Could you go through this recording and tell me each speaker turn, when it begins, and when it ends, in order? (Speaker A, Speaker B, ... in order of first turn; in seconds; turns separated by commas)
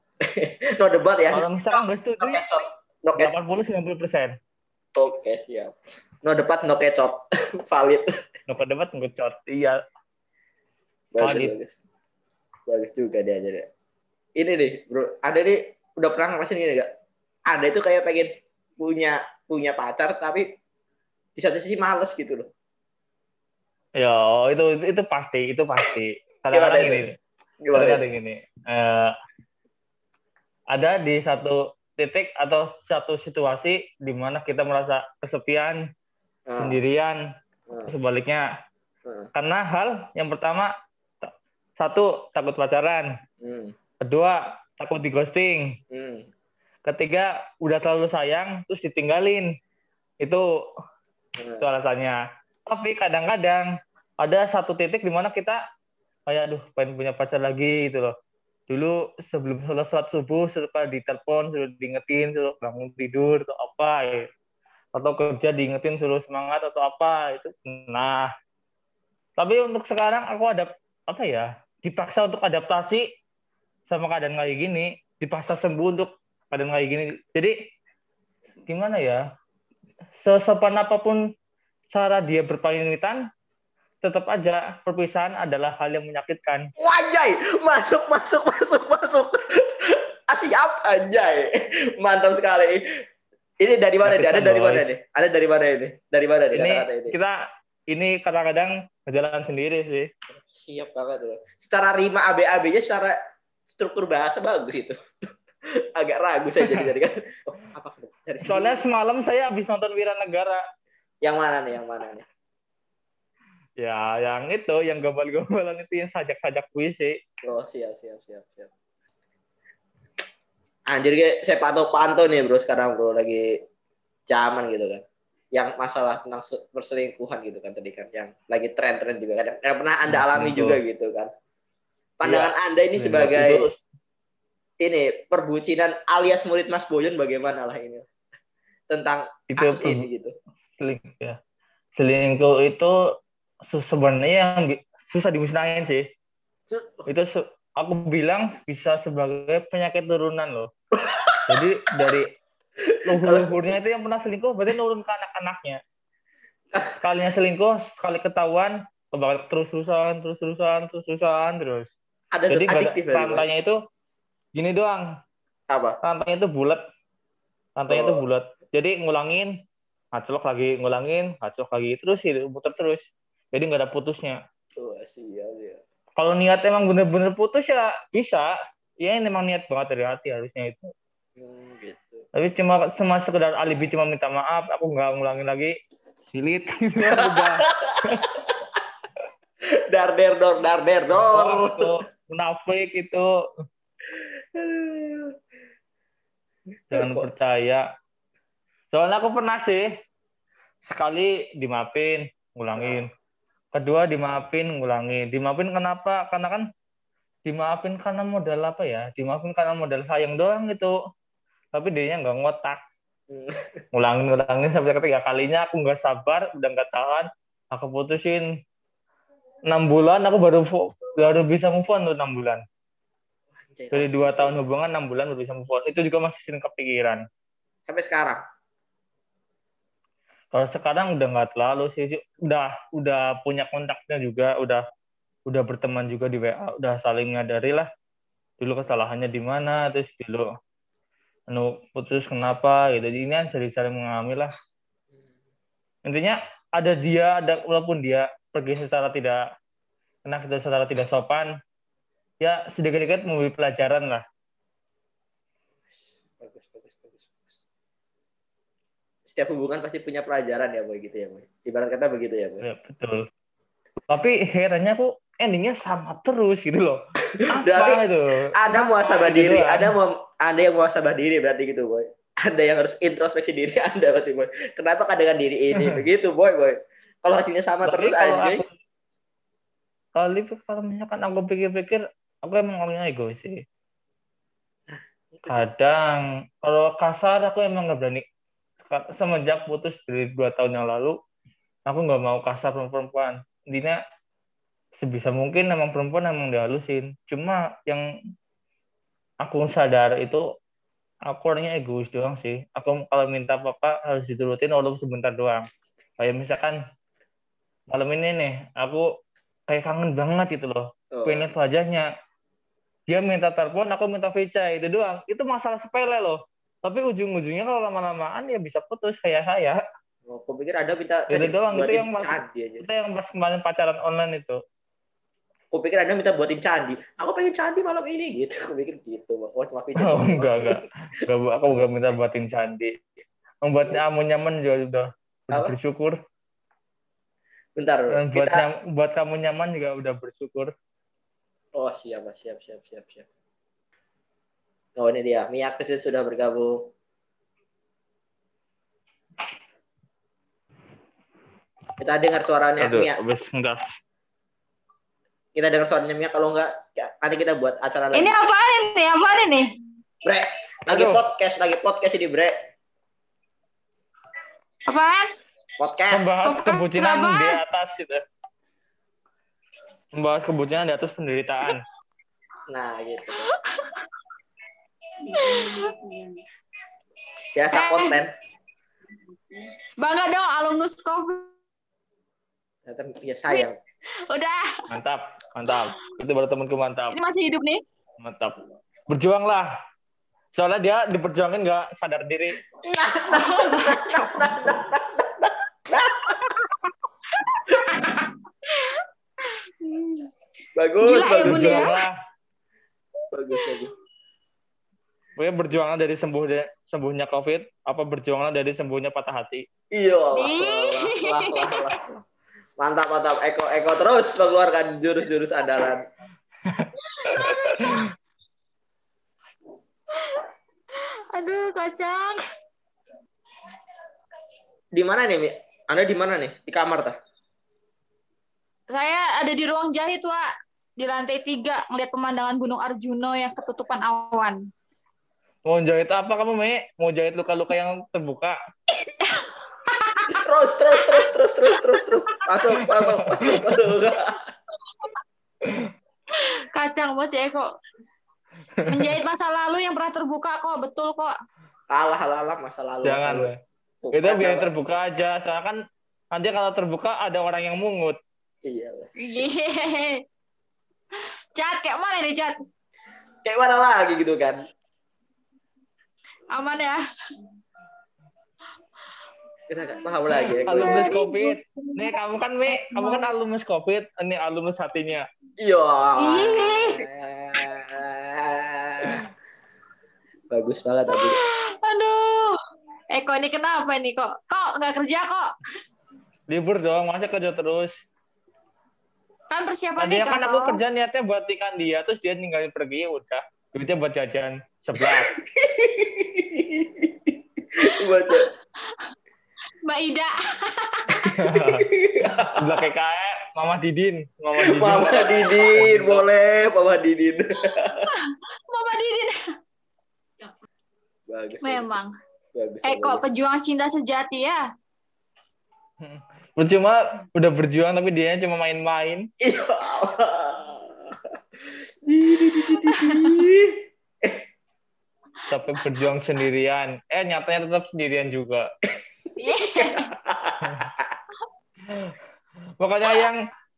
Speaker A: 0.2-3.3, Speaker B: 1.3-2.4, Speaker B: 3.2-4.4, Speaker A: 5.0-5.7, Speaker A: 6.2-8.1, Speaker B: 8.5-9.8, Speaker A: 11.1-11.7, Speaker B: 11.2-11.5, Speaker A: 12.7-13.7, Speaker A: 14.4-16.9, Speaker A: 17.5-20.5, Speaker A: 21.4-22.5, Speaker B: 24.0-27.1, Speaker A: 26.5-27.0, Speaker A: 27.6-28.0, Speaker B: 27.7-29.1, Speaker B: 30.7-35.8, Speaker A: 36.5-36.8, Speaker B: 36.6-37.2, Speaker B: 37.9-38.5, Speaker A: 39.0-39.3, Speaker B: 39.4-40.7, Speaker B: 41.2-43.1, Speaker A: 43.4-43.8, Speaker B: 44.0-45.7, Speaker A: 45.9-46.3, Speaker B: 46.9-49.5, Speaker A: 51.4-51.6, Speaker B: 51.6-53.7, Speaker B: 54.2-55.6, Speaker B: 56.3-58.1, Speaker B: 58.7-64.3, Speaker B: 65.0-68.3, Speaker B: 69.4-73.0, Speaker B: 73.9-77.5, Speaker B: 78.7-79.2, Speaker B: 80.2-81.2, Speaker B: 81.9-83.2, Speaker B: 84.0-86.7, Speaker A: 86.8-92.8, Speaker A: 93.6-97.2, Speaker B: 94.0-94.9, Speaker B: 96.5-97.4, Speaker B: 97.9-100.1, Speaker A: 100.4-103.2, Speaker A: 103.7-105.0, Speaker A: 106.0-108.8, Speaker B: 108.4-110.6, Speaker A: 111.2-112.3, Speaker B: 113.8-117.2, Speaker A: 117.4-118.7, Speaker A: 120.9-123.5, Speaker A: 124.3-125.0, Speaker A: 125.5-131.3, Speaker B: 130.1-130.8, Speaker A: 132.2-133.7, Speaker B: 132.2-133.8, Speaker A: 134.8-138.1, Speaker A: 138.9-140.3, Speaker B: 139.5-140.1, Speaker B: 140.8-141.4, Speaker B: 142.0-142.9, Speaker B: 143.7-146.1, Speaker A: 146.7-147.1, Speaker B: 147.1-150.7, Speaker A: 150.9-151.6, Speaker B: 151.5-152.3, Speaker A: 152.9-153.5, Speaker B: 153.1-155.8, Speaker B: 157.0-161.9, Speaker A: 162.3-163.5, Speaker B: 162.5-163.8, Speaker B: 164.6-165.1, Speaker A: 165.7-166.0, Speaker B: 166.0-166.8, Speaker B: 167.8-169.5, Speaker A: 167.9-168.2, Speaker B: 170.2-174.4, Speaker A: 174.8-175.8, Speaker B: 176.2-178.5, Speaker B: 179.0-180.9, Speaker A: 181.4-182.3, Speaker B: 182.3-185.7, Speaker B: 186.3-188.3, Speaker A: 187.1-188.8, Speaker A: 189.9-191.9, Speaker B: 191.1-193.2, Speaker A: 194.2-195.3, Speaker A: 196.9-197.2, Speaker B: 196.9-197.8, Speaker B: 198.9-199.8, Speaker B: 200.9-203.1, Speaker A: 202.8-203.0, Speaker B: 203.7-206.7, Speaker B: 207.5-210.9, Speaker B: 211.7-212.8, Speaker A: 213.3-213.6, Speaker B: 213.9-218.5, Speaker B: 219.7-222.6, Speaker A: 223.6-224.6, Speaker B: 223.9-227.2, Speaker A: 227.9-228.4, Speaker B: 230.5-234.8, Speaker B: 235.5-237.9, Speaker B: 238.6-240.5, Speaker B: 241.5-244.5, Speaker B: 246.1-249.4, Speaker B: 250.3-251.5, Speaker B: 252.4-254.2, Speaker A: 255.9-257.6, Speaker A: 259.3-262.6, Speaker B: 262.6-263.3, Speaker B: 264.1-267.0, Speaker A: 267.3-268.0, Speaker B: 267.5-269.9, Speaker A: 268.6-278.6, Speaker B: 277.8-278.7, Speaker B: 280.2-283.6, Speaker A: 284.9-285.6, Speaker B: 285.5-288.2, Speaker B: 288.8-291.2, Speaker B: 291.9-294.0, Speaker B: 295.0-298.1, Speaker B: 299.4-300.4, Speaker B: 301.3-305.7, Speaker B: 306.2-306.8, Speaker B: 307.9-309.1, Speaker B: 309.7-312.1, Speaker A: 311.1-311.5, Speaker B: 313.1-319.8, Speaker A: 320.3-322.9, Speaker B: 321.3-324.6, Speaker A: 325.7-330.8, Speaker B: 330.0-332.9, Speaker B: 333.6-336.2, Speaker A: 337.8-338.7, Speaker B: 338.1-340.7, Speaker A: 341.8-343.3, Speaker A: 345.0-346.8, Speaker A: 352.0-353.2, Speaker B: 352.8-353.9, Speaker A: 355.6-358.3, Speaker C: 358.1-359.7, Speaker A: 360.2-362.5, Speaker B: 360.9-361.2, Speaker C: 364.9-365.3, Speaker A: 365.8-366.3, Speaker B: 366.1-368.2, Speaker C: 366.4-367.6, Speaker B: 370.2-371.8, Speaker A: 372.7-373.5, Speaker C: 373.5-374.1, Speaker C: 375.2-376.4, Speaker A: 377.6-378.3, Speaker C: 377.7-378.2, Speaker C: 380.0-381.5, Speaker A: 382.9-383.8, Speaker C: 384.3-384.8, Speaker B: 384.9-387.2, Speaker C: 387.1-387.8, Speaker B: 388.2-388.6, Speaker B: 389.1-389.7, Speaker B: 390.6-392.6, Speaker A: 392.8-396.6, Speaker C: 393.3-394.3, Speaker C: 396.9-400.3, Speaker A: 400.8-401.9, Speaker C: 401.0-401.9, Speaker B: 401.4-402.1, Speaker A: 403.3-403.9, Speaker C: 403.5-403.8, Speaker B: 405.4-409.6, Speaker A: 409.9-412.2, Speaker C: 410.3-411.8, Speaker A: 412.8-416.0, Speaker B: 416.7-418.1, Speaker C: 417.0-418.1, Speaker C: 420.1-422.4, Speaker A: 424.9-427.2, Speaker C: 428.9-434.6, Speaker B: 435.7-438.6, Speaker C: 439.2-442.0, Speaker A: 440.3-444.5, Speaker B: 442.8-443.9, Speaker C: 444.9-445.1, Speaker C: 446.3-447.7, Speaker B: 448.8-449.2, Speaker C: 448.9-451.3, Speaker A: 451.9-453.5, Speaker B: 453.0-453.5, Speaker A: 454.0-454.7, Speaker B: 454.1-455.8, Speaker B: 456.3-458.2, Speaker A: 458.6-459.1, Speaker C: 459.2-460.2, Speaker C: 461.2-462.6, Speaker A: 463.4-464.6, Speaker C: 466.5-467.0, Speaker A: 469.7-471.2, Speaker C: 470.3-472.1, Speaker B: 470.7-475.2, Speaker C: 472.7-473.3, Speaker A: 475.6-479.2, Speaker C: 476.2-477.1, Speaker A: 480.5-481.4, Speaker C: 481.1-482.6, Speaker C: 483.1-485.5, Speaker B: 486.5-487.9, Speaker C: 489.5-490.8, Speaker B: 490.0-495.3, Speaker A: 495.0-498.5, Speaker C: 499.9-501.1, Speaker A: 501.1-502.9, Speaker B: 501.2-501.9, Speaker B: 502.5-506.2, Speaker A: 504.6-508.1, Speaker C: 508.0-509.4, Speaker A: 511.3-511.9, Speaker C: 511.6-512.1, Speaker A: 512.5-513.2, Speaker C: 512.8-514.6, Speaker B: 516.0-519.3, Speaker A: 519.4-524.4, Speaker C: 522.9-523.3, Speaker B: 525.5-528.7, Speaker A: 528.9-531.1, Speaker C: 529.4-530.1, Speaker B: 530.6-530.9, Speaker B: 531.9-532.2, Speaker B: 532.8-533.4